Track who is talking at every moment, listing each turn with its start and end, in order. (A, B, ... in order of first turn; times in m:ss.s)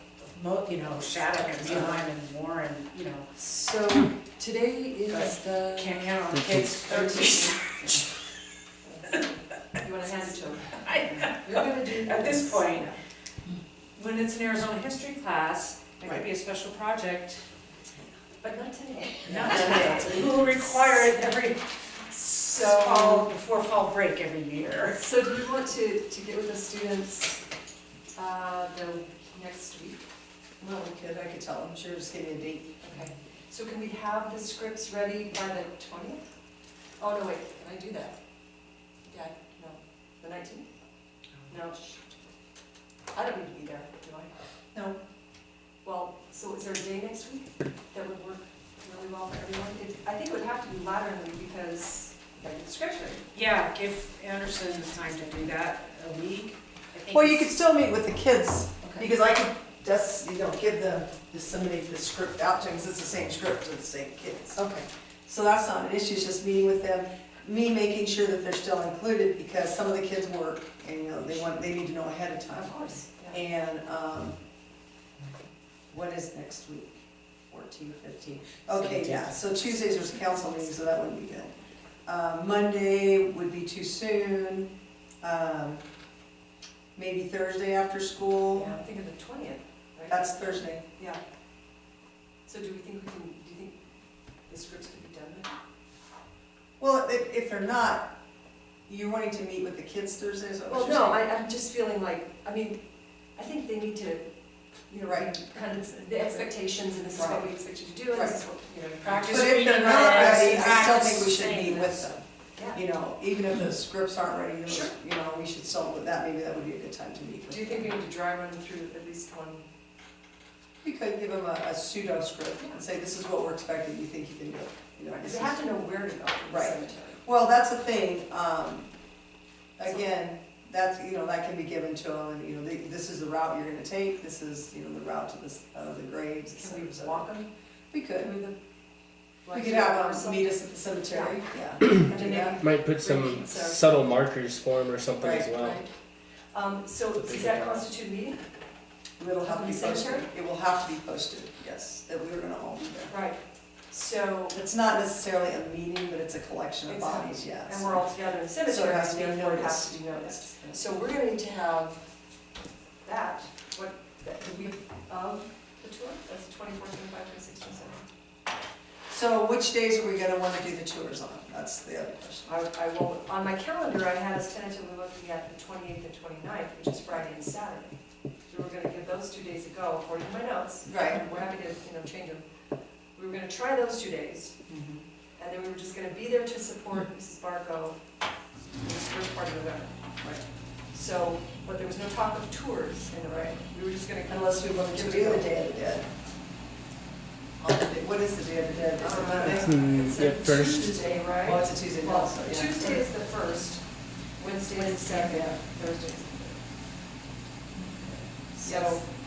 0:00.2-0:03.2 A
0:03.4-0:06.2 B
0:05.2-0:08.1 A
0:06.3-0:06.7 C
0:06.8-0:08.0 B
0:08.8-0:13.0 B
0:10.8-0:12.9 A
0:14.0-0:17.4 A
0:18.4-0:20.1 B
0:19.3-0:20.4 D
0:19.3-0:25.0 A
0:22.4-0:23.3 B
0:25.0-0:27.4 B
0:28.2-0:30.0 B
0:30.6-0:32.8 D
0:32.8-0:36.2 B
0:37.0-0:38.2 B
0:39.1-0:40.7 B
0:41.5-0:42.2 B
0:43.1-0:44.3 B
0:45.8-0:53.2 B
0:53.4-0:57.6 A
0:57.1-1:04.6 D
0:58.8-0:59.1 A
1:04.6-1:04.8 A
1:05.3-1:12.7 D
1:12.5-1:13.4 B
1:13.3-1:14.4 D
1:15.9-1:21.5 D
1:22.1-1:24.7 D
1:25.2-1:25.8 D
1:27.0-1:28.7 D
1:28.6-1:31.2 B
1:30.1-1:30.9 D
1:32.5-1:33.8 B
1:34.5-1:35.5 B
1:36.8-1:38.1 D
1:38.9-1:41.2 D
1:40.7-1:42.8 B
1:43.4-1:44.3 B
1:44.9-1:52.8 B
1:45.0-1:45.3 D
1:47.2-1:47.5 D
1:48.1-1:48.4 D
1:49.0-1:52.0 A
1:49.2-1:58.0 D
1:54.7-1:54.9 B
1:57.5-1:59.6 B
2:00.8-2:05.7 D
2:05.2-2:07.2 B
2:06.4-2:08.9 D
2:09.8-2:17.4 D
2:16.6-2:17.5 B
2:17.9-2:18.4 D
2:18.2-2:18.6 B
2:19.4-2:24.1 B
2:19.5-2:22.6 D
2:22.6-2:25.8 C
2:25.2-2:25.7 D
2:26.5-2:28.4 B
2:27.2-2:27.9 C
2:29.2-2:33.2 D
2:29.4-2:30.3 B
2:33.1-2:34.6 B
2:34.5-2:40.8 D
2:36.9-2:42.0 B
2:43.0-2:48.1 B
2:49.1-2:52.5 D
2:52.4-3:02.4 B
3:00.9-3:01.3 D
3:03.2-3:04.6 B
3:04.7-3:05.0 D
3:05.4-3:08.0 B
3:08.8-3:10.0 B
3:10.9-3:15.6 B
3:14.3-3:16.1 D
3:17.6-3:19.7 D
3:18.9-3:23.8 B
3:19.5-3:21.2 C
3:21.4-3:23.1 D
3:24.4-3:26.6 B
3:25.2-3:25.6 D
3:28.6-3:29.0 B
3:28.6-3:29.0 D